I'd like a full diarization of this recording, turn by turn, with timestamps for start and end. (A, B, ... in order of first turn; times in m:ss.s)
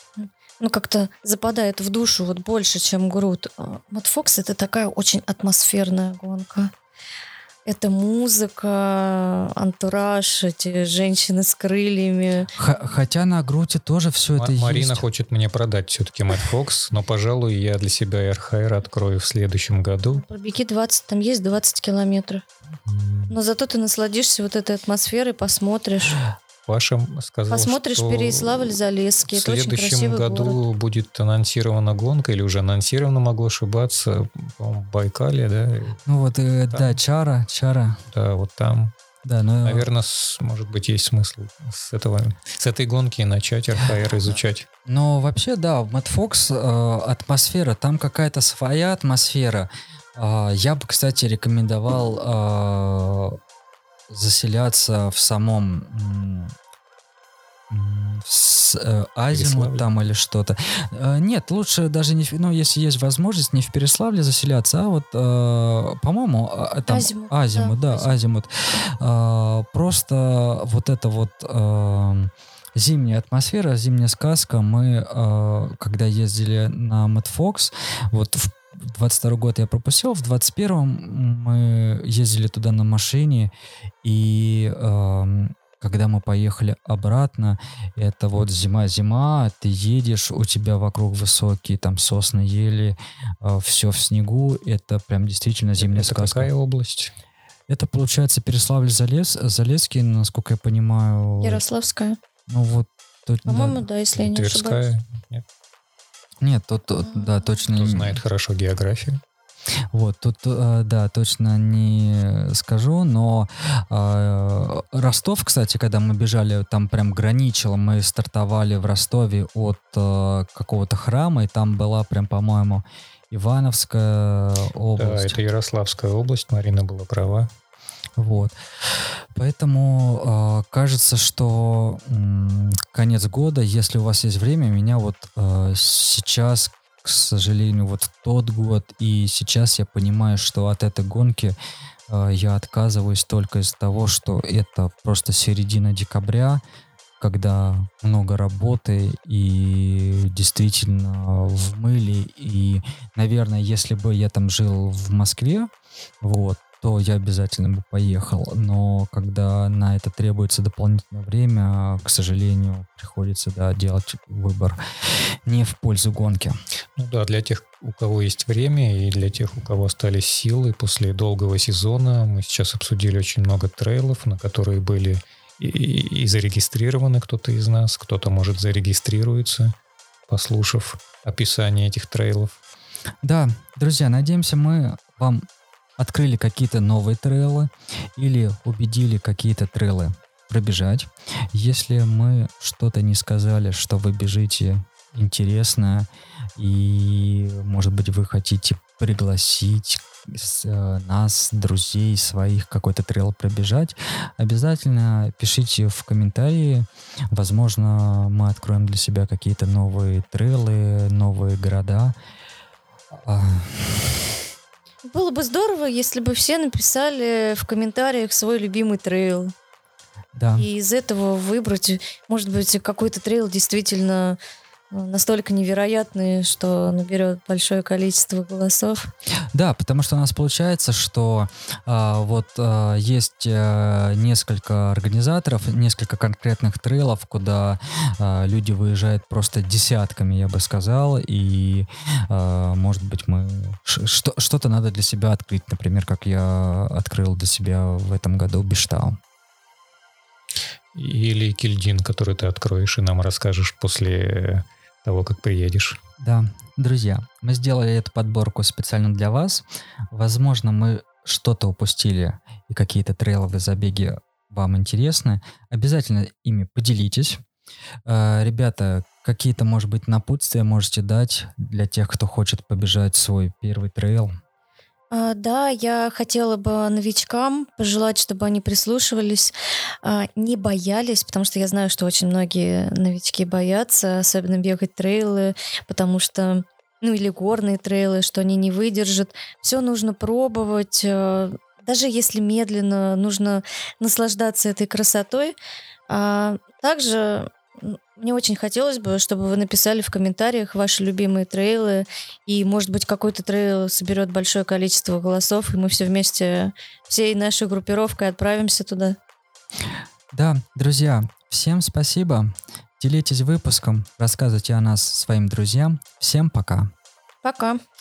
0:00.2-0:06.7 A
0:07.7-0:12.5 A
0:12.6-0:15.0 B
0:14.4-0:20.2 C
0:20.1-0:22.4 A
0:22.9-0:23.4 C
0:23.3-0:26.2 A
0:26.7-0:28.8 C
0:27.5-0:30.6 A
0:29.3-0:36.0 C
0:36.1-0:38.0 B
0:36.7-0:37.0 C
0:38.1-0:38.9 C
0:39.2-0:39.9 B
0:39.6-0:44.7 C
0:44.8-0:53.4 B
0:54.1-0:56.5 B
0:57.7-1:23.5 B
0:59.3-0:59.8 C
1:06.9-1:08.2 A
1:24.0-1:36.5 B
1:35.8-1:37.1 C
1:37.7-1:41.6 B
1:41.4-1:42.2 A
1:42.5-1:43.8 B
1:43.5-1:44.8 A
1:44.2-1:45.4 C
1:46.4-1:48.2 B
1:47.7-1:49.2 C
1:49.9-2:05.4 B
2:05.0-2:07.5 C
2:08.2-2:08.6 B
2:09.3-2:21.6 B
2:22.1-2:26.6 B
2:27.2-2:44.8 B
2:45.5-2:46.6 B
2:47.0-2:59.7 C
3:00.3-3:02.6 C
3:03.2-3:05.4 B
3:06.0-3:32.2 B
3:33.1-3:34.4 B
3:35.1-3:39.5 A
3:40.4-3:40.7 B
3:40.6-3:44.4 A
3:44.9-3:49.1 A
3:49.5-4:09.2 B
4:10.9-4:16.0 C
4:16.2-4:27.4 B
4:28.1-4:34.3 B
4:35.1-4:55.6 A
4:56.1-5:09.2 A
5:10.3-5:16.9 B
5:17.4-5:17.8 A